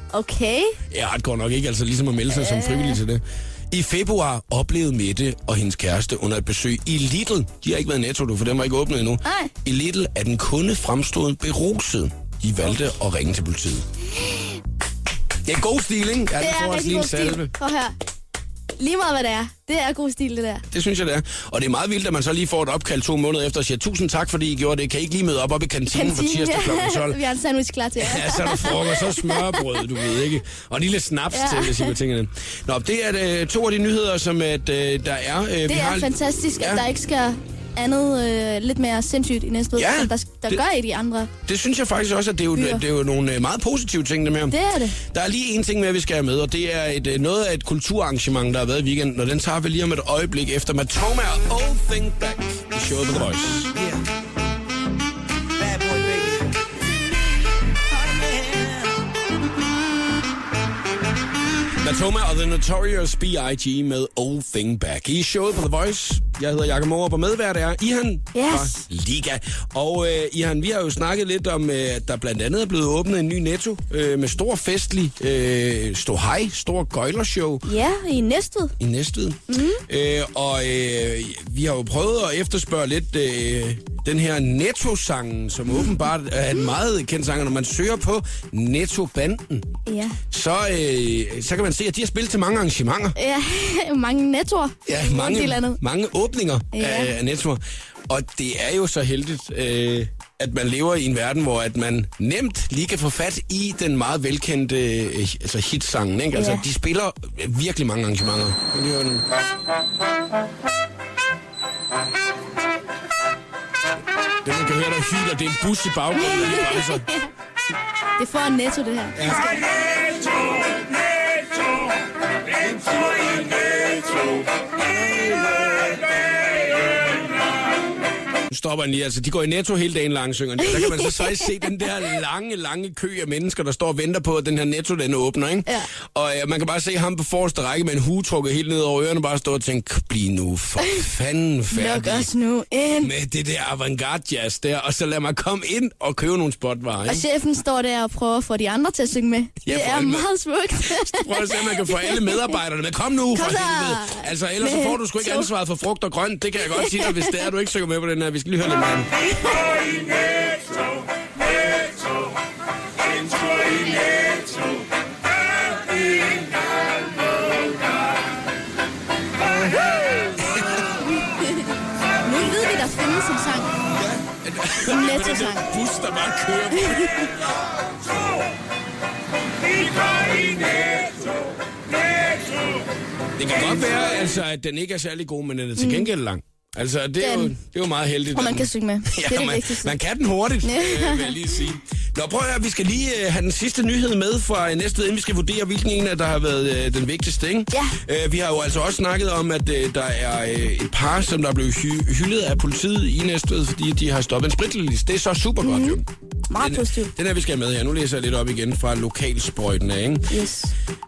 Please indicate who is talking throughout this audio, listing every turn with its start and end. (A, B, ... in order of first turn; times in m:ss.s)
0:00.1-0:00.8 A
0:00.9-0:13.8 B
0:02.3-0:03.0 A
0:09.2-0:09.5 A
0:15.4-0:17.5 B
0:16.4-0:17.9 A
0:18.8-0:20.6 A
0:20.7-0:27.2 B
0:25.9-0:29.8 A
0:28.0-0:36.8 B
0:31.3-0:32.0 A
0:35.7-0:41.3 A
0:39.7-0:40.6 B
0:41.4-0:54.0 B
0:42.5-0:42.8 A
0:44.5-0:45.0 A
0:55.6-0:56.8 B
0:57.9-0:59.0 B
1:01.8-1:17.7 B
1:08.3-1:08.8 A
1:17.6-1:18.7 A
1:18.8-1:29.7 B
1:19.5-1:19.8 A
1:29.8-1:30.2 A
1:30.3-1:33.1 B
1:33.2-1:35.8 A
1:34.8-1:49.2 B
1:36.7-1:37.1 A
1:46.3-1:46.6 A
1:54.4-1:57.1 B
1:56.2-1:57.2 A
1:58.2-1:59.7 A
1:59.2-1:59.7 B
2:02.6-2:06.2 B
2:08.5-2:22.3 B
2:10.8-2:11.0 A
2:21.7-2:23.1 A
2:23.0-2:27.2 B
2:27.1-2:32.5 A
2:29.6-2:30.3 B
2:30.8-2:39.3 B
2:33.3-2:35.5 A
2:36.7-2:37.2 A
2:43.2-2:44.6 B
2:45.9-2:46.5 B
2:50.4-2:51.0 B
2:51.1-2:51.6 A
2:52.2-2:53.7 A
2:53.9-2:57.5 B
2:54.8-2:55.7 A
2:59.8-3:01.2 B
3:03.4-3:26.0 B
3:05.8-3:06.1 A
3:07.2-3:07.5 A
3:08.3-3:10.0 A
3:10.6-3:11.4 A
3:17.7-3:18.0 A
3:25.6-3:27.1 A
3:26.6-3:30.3 B
3:30.3-3:30.7 A